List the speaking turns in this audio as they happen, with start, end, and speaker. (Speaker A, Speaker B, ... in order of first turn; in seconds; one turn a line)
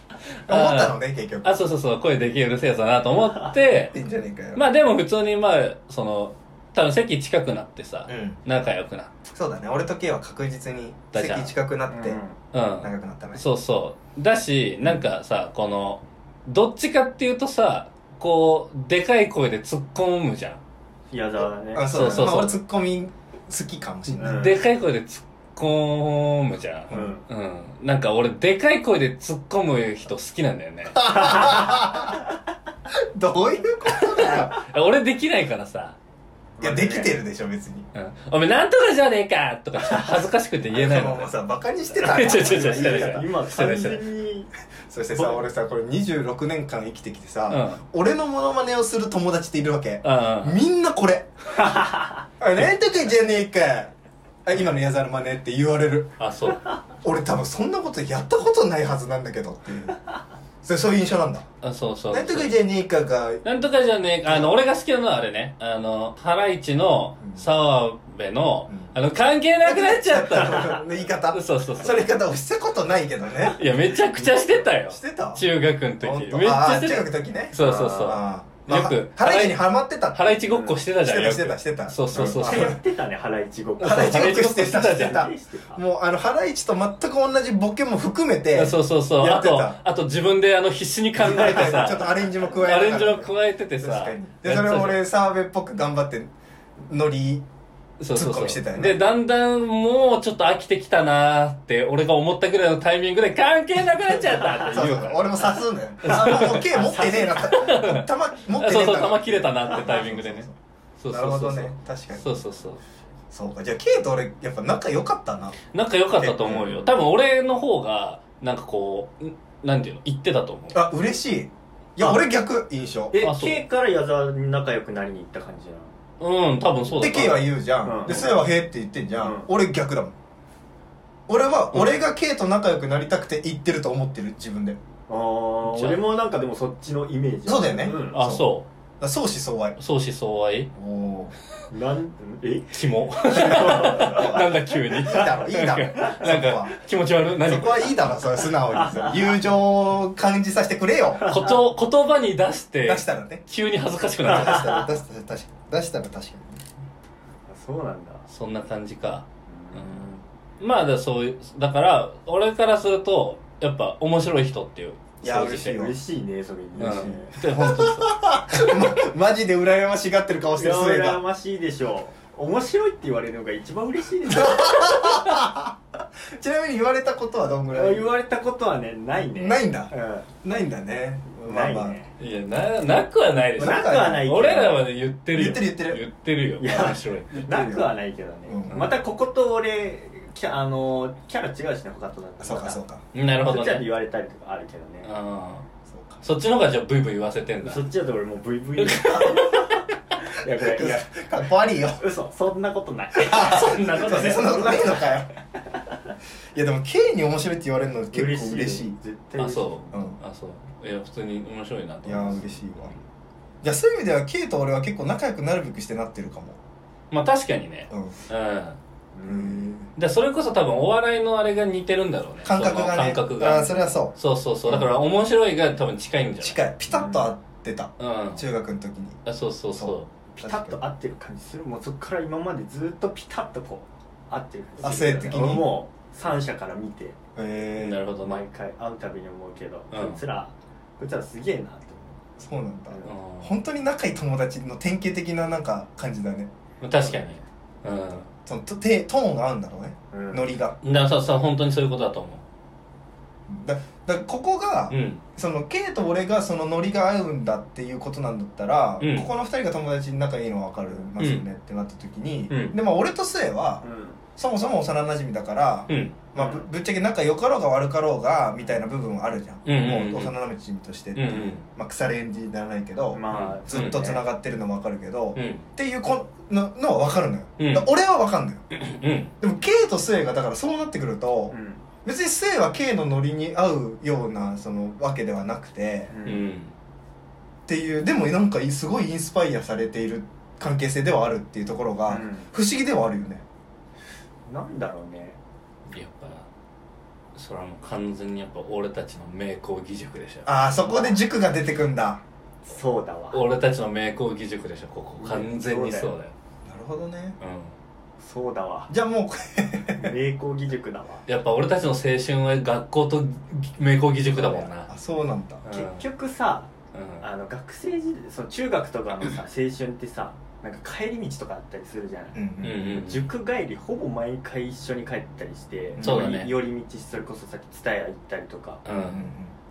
Speaker A: 0.5-4.0
Speaker B: 0.5-1.6
Speaker B: 3.9-4.7
Speaker A: 4.5-9.1
Speaker B: 8.1-8.4
Speaker B: 9.3-12.2
Speaker A: 11.1-11.5
Speaker C: 11.9-12.4
Speaker A: 12.5-20.6
Speaker B: 12.8-13.4
Speaker C: 21.1-22.0
Speaker B: 21.8-24.4
Speaker A: 21.9-22.6
Speaker A: 24.1-31.6
Speaker C: 24.2-24.6
Speaker C: 26.9-27.2
Speaker B: 30.9-32.2
Speaker C: 31.1-31.6
Speaker B: 32.9-34.6
Speaker A: 34.1-36.0
Speaker C: 36.6-37.2
Speaker B: 36.6-37.9
Speaker A: 37.9-41.3
Speaker B: 40.7-43.2
Speaker A: 42.0-44.1
Speaker C: 42.4-44.5
Speaker B: 44.9-51.3
Speaker C: 45.1-45.5
Speaker A: 47.5-47.8
Speaker A: 50.0-50.6
Speaker C: 51.6-52.2
Speaker B: 52.4-53.9
Speaker B: 54.5-56.2
Speaker A: 56.2-56.7
Speaker B: 57.0-60.0
Speaker B: 60.6-61.5
Speaker A: 61.6-62.6
Speaker B: 62.1-63.4
Speaker A: 63.5-72.1
Speaker B: 64.3-64.5
Speaker B: 69.6-73.6
Speaker A: 73.5-79.6
Speaker B: 74.9-75.5
Speaker B: 76.0-80.4
Speaker A: 80.1-82.8
Speaker B: 81.0-82.8
Speaker C: 82.3-85.8
Speaker A: 83.8-85.3
Speaker B: 83.8-89.8
Speaker A: 88.5-95.0
Speaker B: 91.2-93.3
Speaker B: 93.8-96.3
Speaker B: 96.9-97.5
Speaker A: 98.0-105.3
Speaker B: 98.1-99.0
Speaker C: 104.3-105.5
Speaker B: 104.7-110.5
Speaker A: 106.0-106.7
Speaker C: 106.1-107.6
Speaker A: 107.5-110.5
Speaker A: 111.0-112.8
Speaker B: 111.1-112.3
Speaker B: 113.3-115.6
Speaker A: 115.7-120.8
Speaker B: 116.2-117.0
Speaker B: 120.7-123.2
Speaker C: 123.1-126.0
Speaker A: 123.2-123.6
Speaker A: 126.2-127.5
Speaker C: 126.8-128.4
Speaker B: 127.0-130.1
Speaker C: 129.2-129.5
Speaker B: 131.3-134.8
Speaker C: 135.1-138.2
Speaker A: 135.7-136.1
Speaker B: 137.5-138.5
Speaker A: 138.1-138.7
Speaker B: 139.0-139.8
Speaker A: 139.8-140.7
Speaker B: 140.8-141.3
Speaker C: 141.7-144.5
Speaker A: 142.7-148.1
Speaker B: 143.3-146.8
Speaker B: 147.4-151.4
Speaker A: 151.2-154.8
Speaker B: 152.9-153.4
Speaker B: 154.2-156.6
Speaker C: 154.3-154.9
Speaker C: 157.5-158.3
Speaker A: 158.3-160.1
Speaker C: 159.5-160.2
Speaker A: 160.6-165.8
Speaker B: 165.2-165.9
Speaker C: 165.3-167.3
Speaker A: 166.8-168.7
Speaker B: 166.8-171.2
Speaker C: 170.6-175.3
Speaker B: 174.3-175.8
Speaker B: 176.3-178.1
Speaker C: 177.7-180.3
Speaker B: 179.4-182.0
Speaker C: 181.3-182.1
Speaker A: 182.2-187.4
Speaker B: 183.6-184.3
Speaker C: 183.6-184.9
Speaker B: 185.3-186.0
Speaker C: 186.6-192.8
Speaker B: 186.7-187.9
Speaker B: 188.5-188.9
Speaker B: 192.4-193.0
Speaker A: 193.1-193.9
Speaker C: 193.5-195.1
Speaker A: 195.0-195.7
Speaker B: 195.9-196.2
Speaker A: 196.2-197.9
Speaker C: 197.6-201.1
Speaker A: 198.8-199.5
Speaker B: 200.5-202.0
Speaker C: 202.0-205.2
Speaker B: 203.2-205.3
Speaker A: 203.3-204.6
Speaker B: 206.5-209.0
Speaker C: 208.1-210.0
Speaker A: 209.4-213.0
Speaker B: 209.9-210.2
Speaker B: 212.0-212.9
Speaker B: 213.6-216.6
Speaker A: 217.1-218.8
Speaker B: 217.9-218.2
Speaker C: 219.2-219.7
Speaker B: 219.3-219.9
Speaker A: 220.0-226.6
Speaker B: 222.4-224.2
Speaker B: 224.7-224.9
Speaker B: 226.4-229.2
Speaker C: 226.9-227.3
Speaker A: 228.0-228.4
Speaker A: 229.3-230.1
Speaker B: 229.7-230.8
Speaker C: 230.3-237.2
Speaker B: 234.8-235.7
Speaker B: 237.4-238.0
Speaker A: 237.8-238.4
Speaker C: 238.2-242.2
Speaker A: 239.9-240.2
Speaker B: 242.4-246.5
Speaker A: 243.0-243.6
Speaker A: 246.8-248.3
Speaker B: 248.5-250.8
Speaker C: 250.1-250.5
Speaker A: 250.8-252.4
Speaker B: 253.5-263.8
Speaker A: 254.9-255.2
Speaker A: 259.0-259.3
Speaker A: 261.2-261.4
Speaker A: 262.5-262.8
Speaker C: 263.8-264.2
Speaker B: 264.4-278.6
Speaker A: 265.9-266.2
Speaker C: 266.4-266.7
Speaker A: 269.6-270.4
Speaker A: 271.2-271.6
Speaker C: 273.1-274.2
Speaker A: 273.3-274.1
Speaker A: 275.4-275.7
Speaker A: 277.6-277.9
Speaker A: 278.7-279.3
Speaker B: 279.4-286.1
Speaker C: 281.5-281.8
Speaker C: 286.1-286.5
Speaker A: 286.2-286.7
Speaker B: 287.7-293.4
Speaker C: 292.1-292.5
Speaker C: 294.5-295.4
Speaker A: 295.9-296.5
Speaker A: 297.4-300.5
Speaker B: 300.5-302.2
Speaker C: 300.7-301.2
Speaker C: 302.6-303.4
Speaker A: 303.3-306.3
Speaker C: 305.2-306.1
Speaker B: 306.6-307.4
Speaker A: 307.4-307.8
Speaker C: 308.2-308.9
Speaker B: 308.9-310.1
Speaker C: 310.0-311.2
Speaker A: 311.3-314.9
Speaker B: 314.4-315.6
Speaker A: 315.6-316.0
Speaker C: 315.7-328.8
Speaker A: 316.9-317.2
Speaker B: 322.3-322.8
Speaker A: 322.6-323.3
Speaker B: 326.0-326.3
Speaker A: 326.0-326.5
Speaker A: 328.9-329.3
Speaker B: 328.9-329.6